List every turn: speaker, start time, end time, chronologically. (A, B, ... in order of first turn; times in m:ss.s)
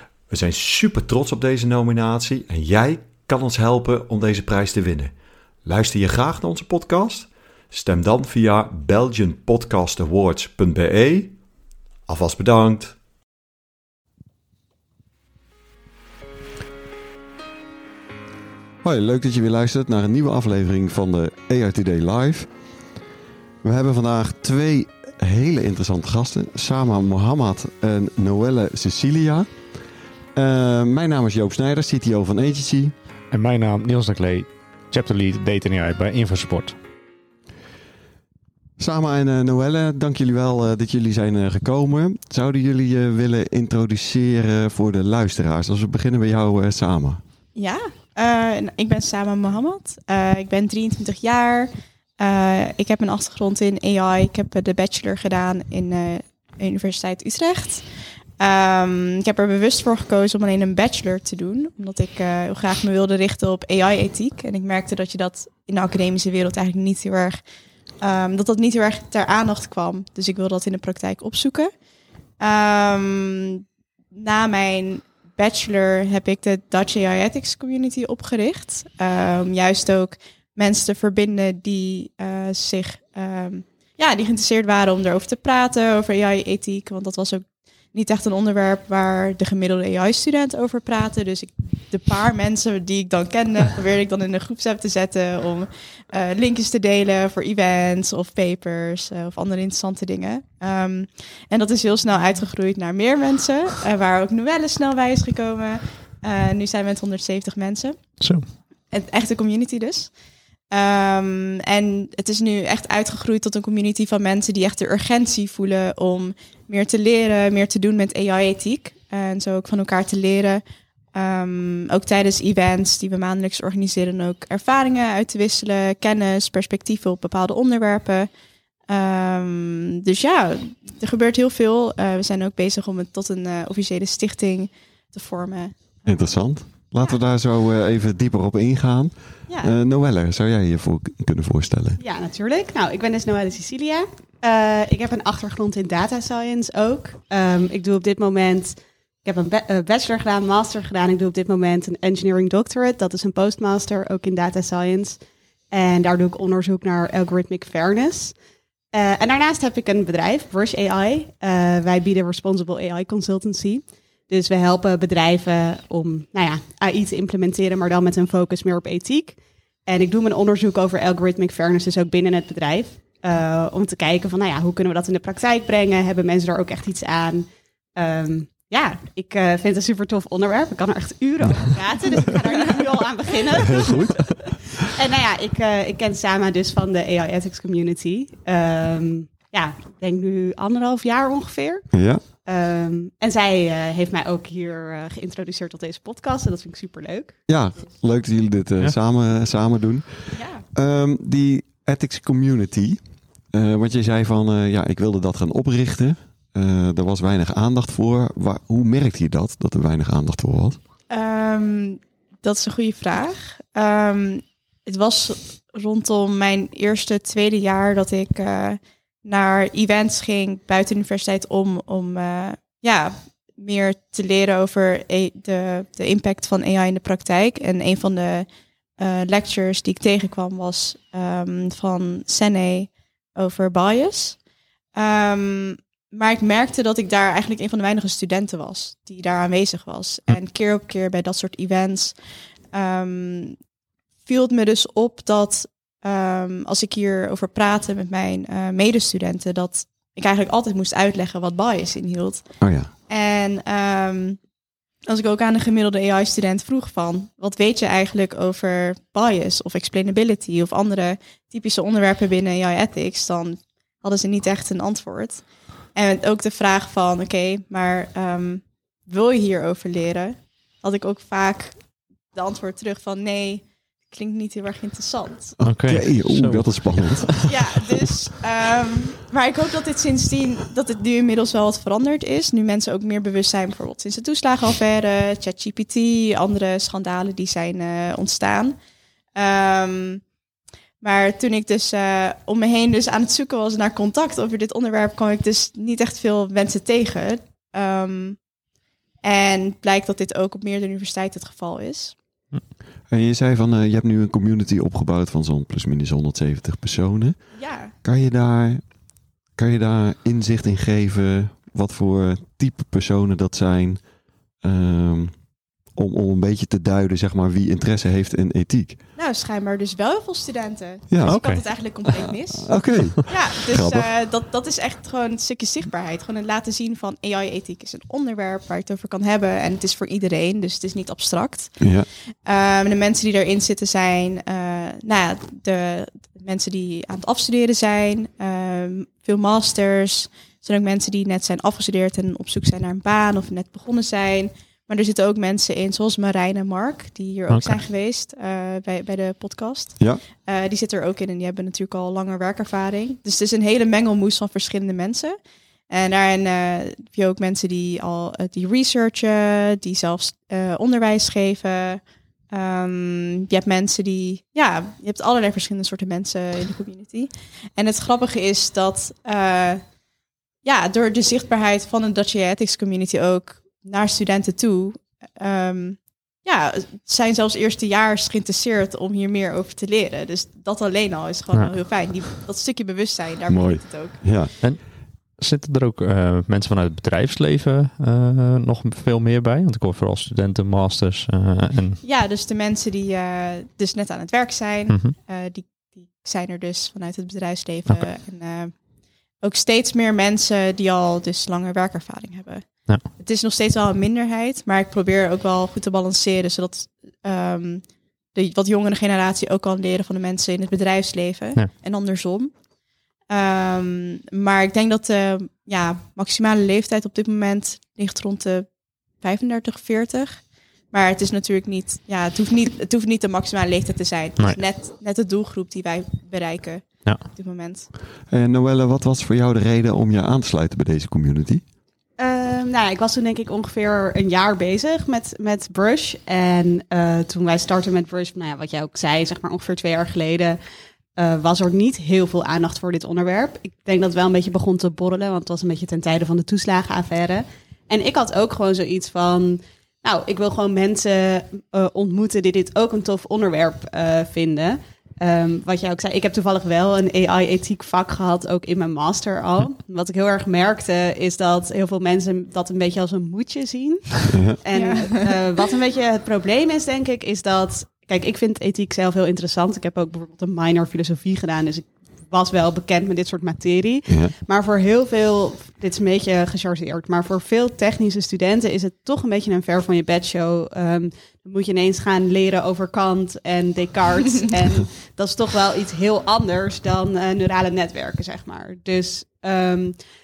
0:00.3-0:11.4 A
0:12.1-0:13.0 A
0:18.8-0:22.5 B
0:23.6-0:29.7 B
0:30.3-0:32.9 B
0:33.3-0:36.8 C
0:38.8-0:47.2 B
0:47.6-1:07.4 D
1:08.0-1:11.7 D
1:12.4-1:50.2 D
1:48.2-1:48.5 C
1:50.7-2:08.3 D
2:08.9-2:16.3 D
2:16.1-2:22.0 B
2:19.5-2:19.8 D
2:22.0-2:38.4 E
2:38.9-3:17.8 E
3:03.6-3:04.7 B
3:11.9-3:12.2 B
3:17.5-3:30.8 B
3:20.3-3:20.6 D
3:31.1-4:03.6 D
4:04.2-4:14.5 D
4:12.6-4:12.9 B
4:15.1-4:35.6 D
4:35.6-4:37.5 B
4:35.6-4:37.5 C
4:37.5-4:48.8 D
4:49.3-4:50.3 D
4:51.0-4:58.5 D
4:59.2-5:02.2 D
5:03.1-5:19.0 B
5:07.6-5:07.9 D
5:19.2-6:10.0 D
5:21.1-5:21.4 B
5:21.2-5:22.1 C
5:22.7-5:24.1 B
5:31.8-5:32.1 B
5:47.5-5:47.8 C
6:10.6-6:24.3 D
6:23.5-6:24.5 B
6:24.6-6:32.0 C
6:32.0-6:52.6 D
6:34.9-6:35.2 C
6:53.3-7:07.9 D
7:08.3-7:11.6 B
7:12.2-7:20.6 E
7:21.2-8:10.0 E
7:44.3-7:44.6 B
7:44.7-7:45.3 D
7:54.1-7:54.3 B